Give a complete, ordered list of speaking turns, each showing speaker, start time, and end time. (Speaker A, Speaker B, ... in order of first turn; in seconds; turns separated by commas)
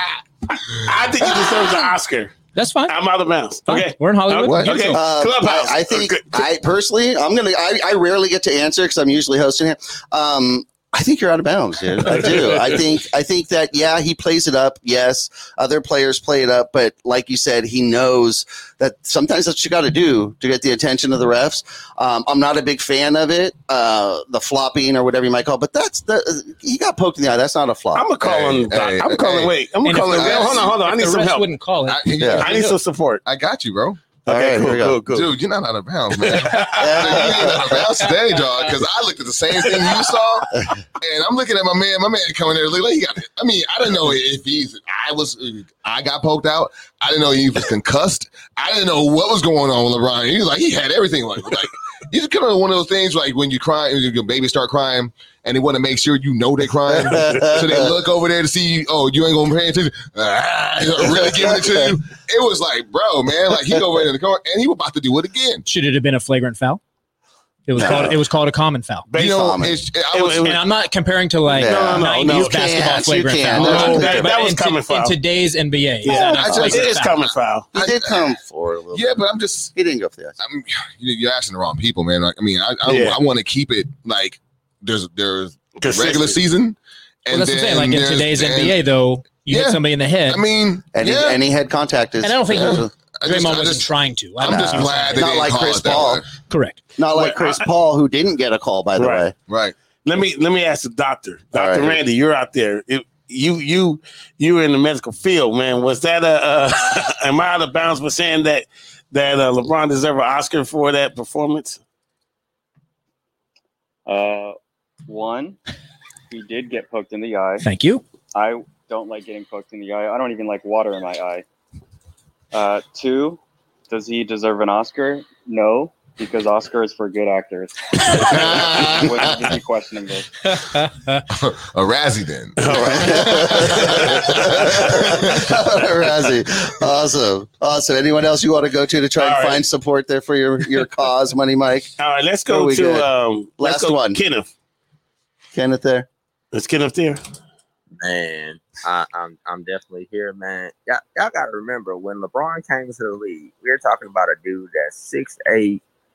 Speaker A: 0.5-2.3, Speaker B: 1.2-1.7, Speaker C: 2.5-2.9, Speaker A: 2.9-6.4, Speaker C: 3.7-5.0, Speaker B: 4.5-4.9, Speaker D: 4.9-28.1, Speaker A: 12.2-12.4, Speaker A: 27.9-31.5, Speaker B: 28.2-29.5, Speaker C: 29.8-32.8, Speaker B: 30.1-30.6, Speaker B: 31.9-32.5, Speaker D: 32.2-32.5, Speaker A: 32.4-33.2, Speaker B: 33.2-34.2, Speaker A: 34.2-35.3, Speaker D: 34.2-35.0, Speaker B: 35.1-65.6, Speaker A: 36.2-37.2, Speaker D: 36.8-37.8, Speaker A: 39.8-40.1, Speaker D: 56.9-57.9, Speaker C: 65.7-66.8, Speaker C: 67.7-69.1, Speaker D: 67.8-68.1, Speaker A: 67.8-68.2, Speaker A: 69.1-70.6, Speaker B: 69.2-70.5, Speaker D: 69.2-69.7, Speaker C: 70.4-77.2, Speaker A: 71.5-72.7, Speaker D: 71.5-74.5, Speaker A: 73.5-75.2, Speaker A: 76.0-77.7, Speaker B: 76.0-77.2, Speaker D: 77.7-79.2, Speaker B: 77.8-78.3, Speaker B: 78.9-79.7, Speaker D: 79.7-80.4, Speaker B: 80.4-88.8, Speaker A: 82.8-83.2, Speaker A: 85.8-86.4, Speaker C: 87.3-90.4, Speaker B: 89.4-91.4, Speaker D: 90.9-92.9, Speaker C: 92.2-95.4, Speaker B: 92.6-96.3, Speaker D: 94.4-96.2, Speaker C: 96.5-96.8, Speaker D: 97.0-99.3, Speaker A: 97.1-97.7, Speaker A: 99.0-99.3, Speaker B: 99.5-99.7, Speaker A: 100.0-111.8, Speaker D: 101.5-102.0, Speaker E: 114.0-114.5, Speaker E: 115.1-115.6, Speaker E: 116.3-117.7, Speaker C: 117.6-118.0, Speaker E: 118.3-121.4, Speaker E: 122.5-130.3, Speaker B: 128.3-129.4, Speaker C: 130.7-131.1, Speaker B: 131.3-135.4, Speaker A: 132.6-134.8, Speaker D: 132.7-141.9, Speaker A: 139.2-139.6, Speaker A: 142.0-144.5, Speaker D: 142.5-143.1, Speaker D: 143.6-144.2, Speaker D: 145.5-146.1, Speaker A: 146.5-147.2, Speaker F: 148.0-155.8